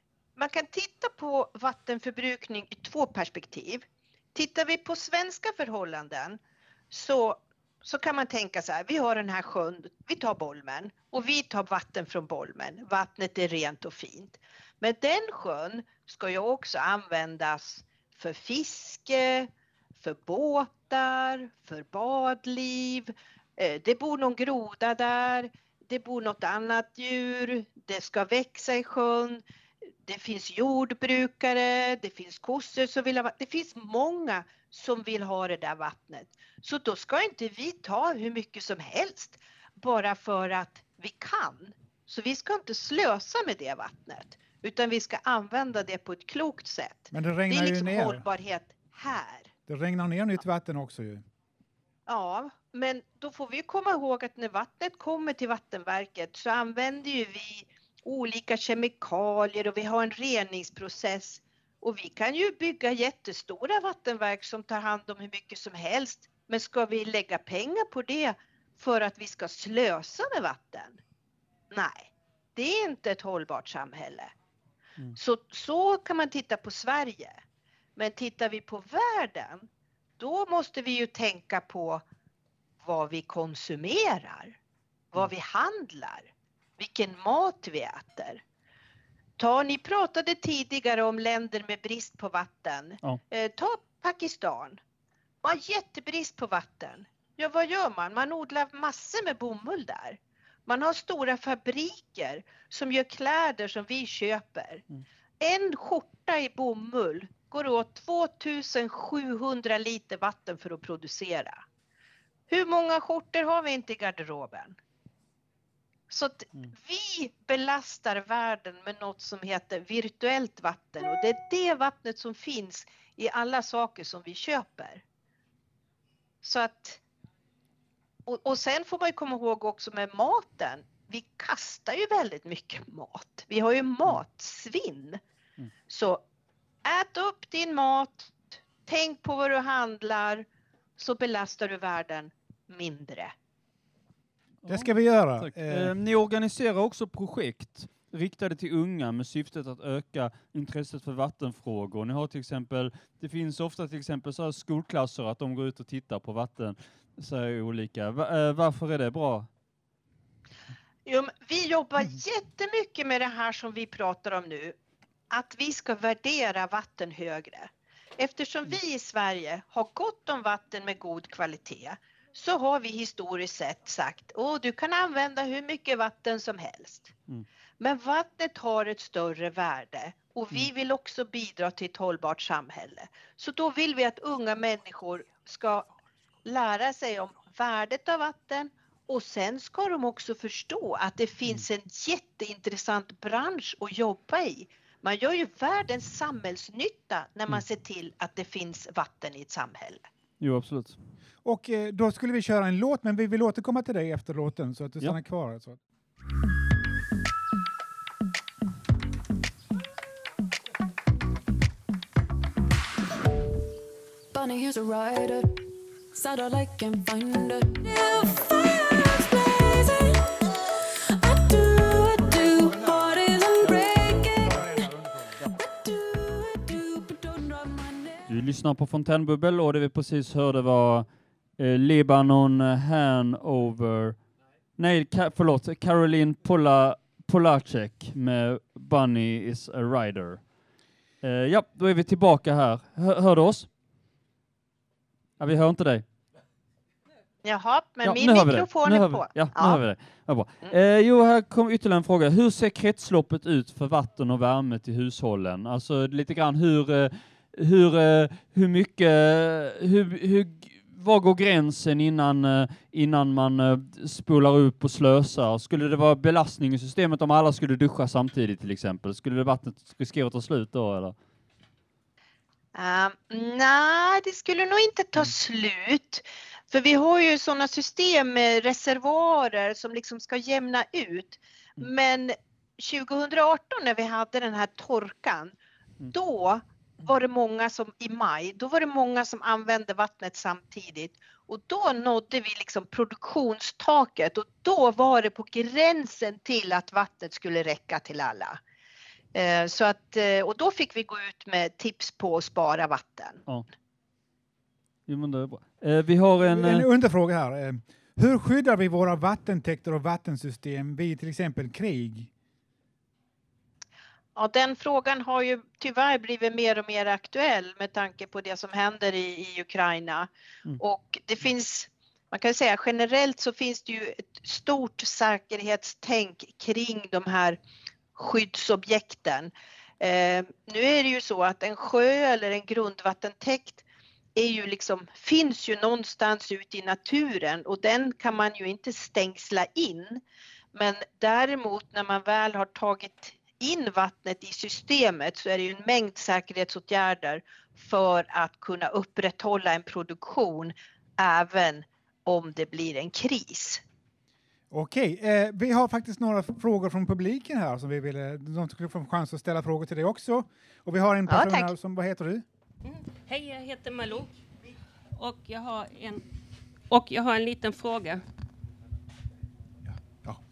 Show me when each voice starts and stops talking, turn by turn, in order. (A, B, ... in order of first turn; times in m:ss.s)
0:00.4-0:06.4 A
0:06.9-0:29.4 A
0:30.1-0:49.5 A
0:47.1-0:48.2 B
0:49.7-0:51.2 B
0:52.1-1:11.0 A
1:11.7-1:14.3 A
1:15.2-1:17.4 A
1:18.0-1:19.7 A
1:20.2-1:22.0 A
1:22.8-1:24.6 A
1:25.1-1:28.4 A
1:29.4-1:34.8 A
1:35.4-1:44.8 A
1:45.4-1:51.6 A
1:52.5-1:54.8 A
1:56.1-2:05.0 A
2:06.4-2:07.0 A
2:08.3-2:15.2 A
2:15.9-2:16.2 A
2:16.8-2:20.5 A
2:21.0-2:23.3 A
2:24.6-2:39.5 C
2:24.7-2:25.9 B
2:41.1-2:44.8 A
2:45.3-2:57.1 A
2:57.8-3:05.9 A
3:06.4-3:20.0 A
3:20.4-3:21.0 C
3:21.4-3:25.8 B
3:34.3-3:35.6 D
3:36.1-3:40.2 D
3:41.2-3:44.8 D
3:42.5-3:45.4 B
3:45.5-3:48.3 D
3:48.3-3:51.1 C
3:51.6-3:54.2 C
3:54.8-4:00.5 C
4:01.2-4:03.7 C
4:05.4-4:06.0 C
4:07.4-4:09.8 A
4:08.0-4:31.2 C
4:32.8-4:45.5 A
4:46.1-4:58.6 A
4:59.3-5:03.4 A
5:05.1-5:06.9 C
5:06.4-5:12.3 B
5:14.4-5:27.6 A
5:28.2-5:33.8 A
5:34.4-5:40.2 A
5:40.7-5:53.8 A
5:54.7-6:02.4 B
6:01.3-6:01.7 A
6:02.8-6:04.3 E
6:05.2-6:06.2 E
6:06.9-6:08.2 E
6:09.9-6:10.4 B